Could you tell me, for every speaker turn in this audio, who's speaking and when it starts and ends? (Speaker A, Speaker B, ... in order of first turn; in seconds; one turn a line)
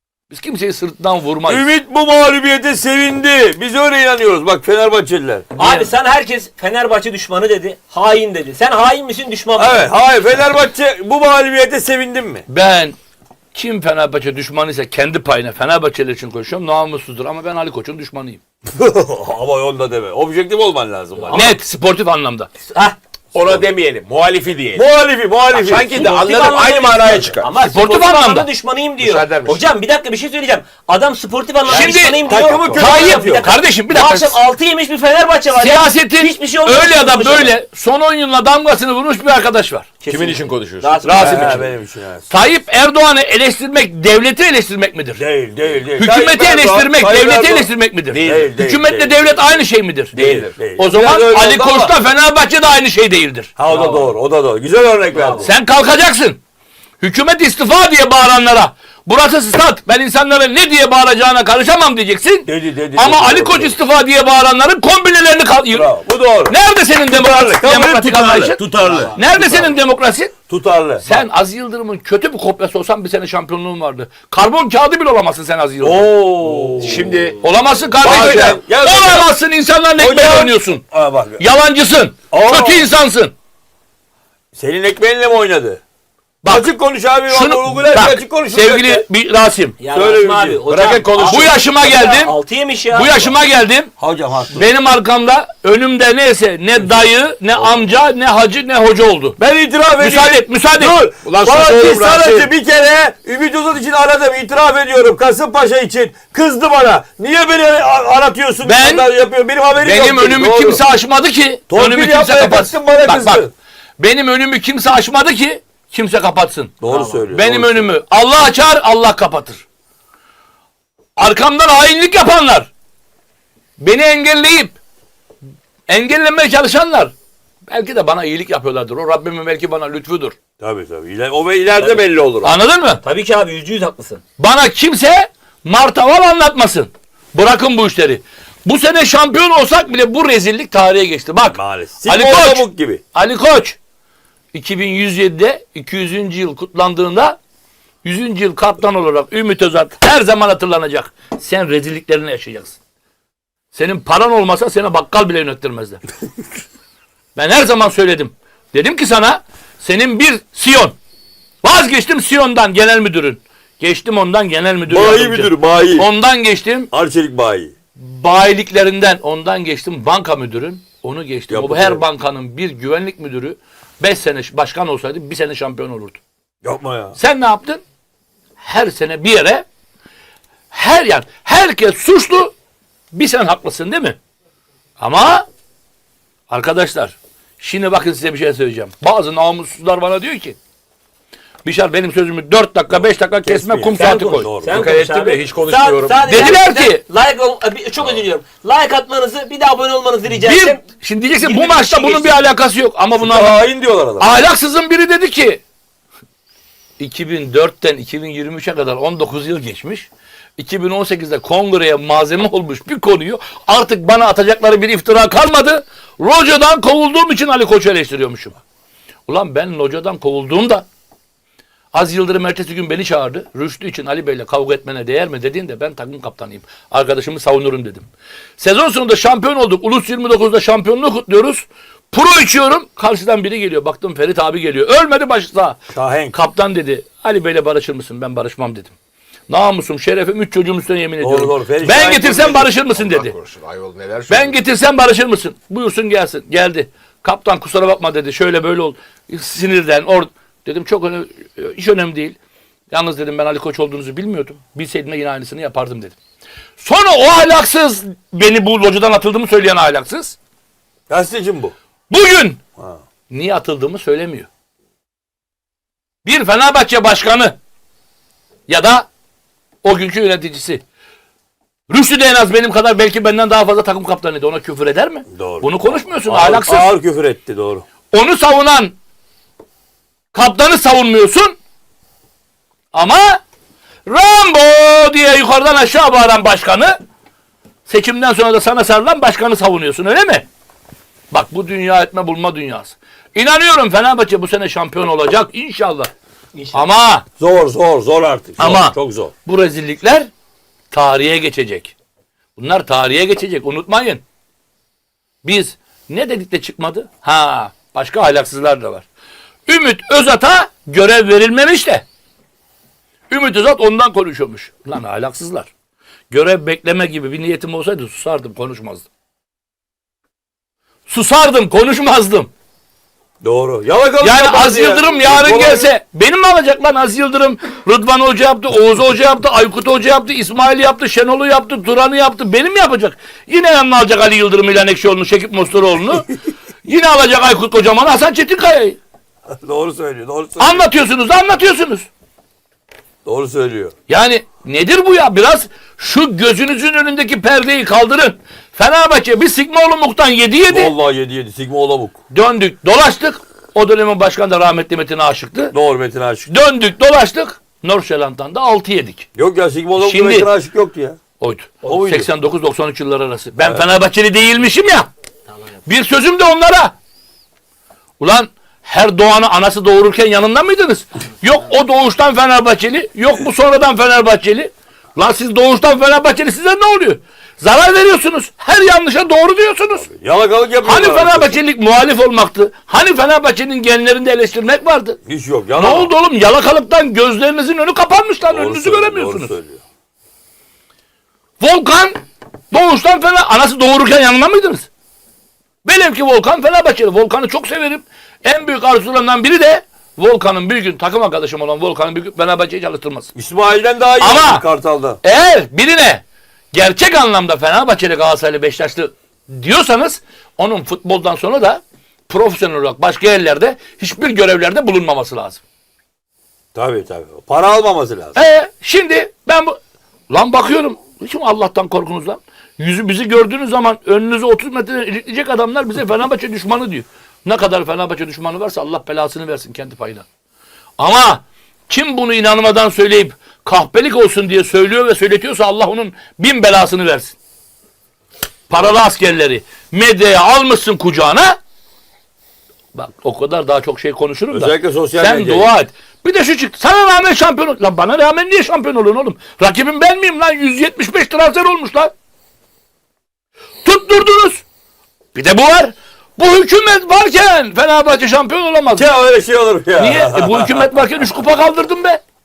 Speaker A: 0.3-1.7
Speaker B: 1.5-5.5
Speaker C: 5.5-9.9
Speaker A: 5.6-5.9
Speaker B: 9.6-12.4
Speaker A: 12.5-12.9
Speaker A: 13.5-18.4
Speaker B: 18.7-21.5
Speaker D: 21.3-21.6
Speaker A: 21.3-22.5
Speaker D: 23.3-24.8
Speaker B: 24.7-26.2
Speaker D: 25.5-27.5
Speaker C: 25.7-37.5
Speaker A: 27.6-28.5
Speaker D: 29.0-29.7
Speaker A: 31.7-34.3
Speaker B: 31.8-33.5
Speaker D: 32.3-33.0
Speaker A: 35.5-39.9
Speaker C: 40.0-41.7
Speaker D: 40.1-41.5
Speaker B: 41.0-42.3
Speaker A: 41.0-41.6
Speaker A: 42.3-45.2
Speaker B: 45.2-49.4
Speaker A: 46.0-53.5
Speaker D: 48.1-48.5
Speaker B: 50.1-51.9
Speaker B: 53.6-55.5
Speaker C: 53.7-54.1
Speaker C: 55.1-55.5
Speaker A: 55.4-56.4
Speaker A: 57.0-65.9
Speaker B: 62.5-63.8
Speaker B: 65.7-66.5
Speaker A: 66.5-68.6
Speaker B: 67.1-69.2
Speaker C: 68.6-69.7
Speaker A: 69.2-70.3
Speaker B: 70.5-71.2
Speaker A: 71.0-76.1
Speaker B: 75.8-77.3
Speaker D: 76.5-77.4
Speaker A: 77.4-80.8
Speaker D: 78.0-78.5
Speaker B: 78.0-79.3
Speaker B: 80.0-81.4
Speaker A: 81.4-83.3
Speaker B: 82.3-82.8
Speaker B: 84.5-85.8
Speaker A: 86.4-86.7
Speaker B: 86.4-89.0
Speaker A: 87.3-89.8
Speaker C: 89.8-93.3
Speaker B: 89.9-90.7
Speaker D: 90.7-91.5
Speaker A: 91.2-92.3
Speaker A: 92.9-93.9
Speaker B: 94.0-94.6
Speaker A: 94.5-99.4
Speaker B: 99.4-110.8
Speaker A: 100.0-101.0
Speaker D: 101.2-102.5
Speaker A: 108.6-109.1
Speaker A: 109.8-113.5
Speaker B: 111.7-113.5
Speaker A: 114.0-116.7
Speaker B: 116.8-117.9
Speaker C: 116.8-117.2
Speaker A: 117.3-119.6
Speaker A: 121.2-122.7
Speaker A: 123.8-124.8
Speaker A: 125.9-127.1
Speaker A: 127.7-130.4
Speaker B: 130.6-132.5
Speaker A: 132.4-133.0
Speaker C: 133.0-134.2
Speaker A: 134.4-143.8
Speaker B: 141.5-143.0
Speaker A: 144.5-147.4
Speaker A: 148.0-152.8
Speaker A: 153.7-156.0
Speaker A: 157.3-161.0
Speaker A: 161.6-166.9
Speaker B: 164.9-166.1
Speaker B: 166.9-167.7
Speaker A: 168.0-176.2
Speaker B: 171.5-172.0
Speaker B: 176.6-177.2
Speaker A: 177.2-177.8
Speaker A: 178.6-179.7
Speaker A: 180.7-182.5
Speaker A: 183.1-184.2
Speaker A: 185.0-185.4
Speaker A: 186.5-190.6
Speaker A: 191.6-194.5
Speaker B: 193.4-194.9
Speaker C: 193.9-200.8
Speaker D: 194.7-196.5
Speaker A: 196.2-197.0
Speaker A: 200.3-203.6
Speaker C: 201.4-202.5
Speaker B: 203.2-204.3
Speaker A: 204.2-205.6
Speaker A: 207.0-218.6
Speaker A: 219.3-220.9
Speaker A: 221.9-228.1
Speaker A: 228.6-235.8
Speaker B: 235.9-236.3
Speaker A: 236.3-238.9
Speaker A: 239.5-243.3
Speaker B: 241.2-242.8
Speaker D: 243.0-244.5
Speaker A: 244.3-252.3
Speaker A: 252.9-256.2
Speaker A: 256.8-260.4
Speaker B: 261.1-261.7
Speaker A: 262.1-262.6
Speaker A: 263.3-264.5
Speaker A: 266.2-267.6
Speaker A: 268.7-269.1
Speaker A: 269.8-270.8
Speaker A: 271.9-276.9
Speaker B: 275.3-277.8
Speaker A: 278.1-278.9
Speaker A: 280.3-281.6
Speaker A: 282.9-283.4
Speaker A: 284.1-287.0
Speaker A: 287.9-290.4
Speaker A: 291.3-296.1
Speaker A: 296.7-297.2
Speaker B: 297.4-299.3
Speaker A: 298.6-300.3
Speaker A: 300.9-301.9
Speaker A: 302.6-304.2
Speaker A: 305.4-309.1
Speaker A: 309.7-312.0
Speaker A: 313.3-315.7
Speaker A: 316.3-319.1
Speaker A: 321.1-322.5
Speaker B: 323.4-325.9
Speaker A: 324.2-336.3
Speaker A: 336.8-339.0
Speaker B: 339.5-340.9
Speaker A: 340.6-342.1
Speaker B: 343.2-343.9
Speaker A: 344.1-350.9
Speaker B: 350.7-352.2
Speaker A: 352.3-355.7
Speaker B: 355.7-356.5
Speaker A: 356.5-359.3
Speaker B: 359.4-361.2
Speaker A: 360.0-360.5
Speaker A: 361.4-365.1
Speaker B: 361.9-362.3
Speaker B: 363.6-363.9
Speaker A: 365.9-366.9
Speaker A: 368.2-380.1
Speaker B: 380.0-381.6
Speaker A: 380.8-385.2
Speaker B: 385.2-386.1
Speaker A: 385.7-389.6
Speaker B: 388.5-389.8
Speaker A: 391.6-392.2
Speaker A: 392.7-394.9
Speaker A: 395.8-403.3
Speaker B: 403.3-405.2
Speaker A: 404.2-404.6
Speaker A: 405.2-415.6
Speaker B: 416.7-418.3
Speaker A: 418.3-419.8
Speaker A: 420.3-430.2
Speaker A: 431.0-437.4
Speaker A: 438.7-441.6
Speaker A: 442.9-452.1
Speaker B: 444.5-445.7
Speaker A: 453.8-454.6
Speaker A: 455.3-459.1
Speaker B: 458.9-460.9
Speaker A: 460.0-462.2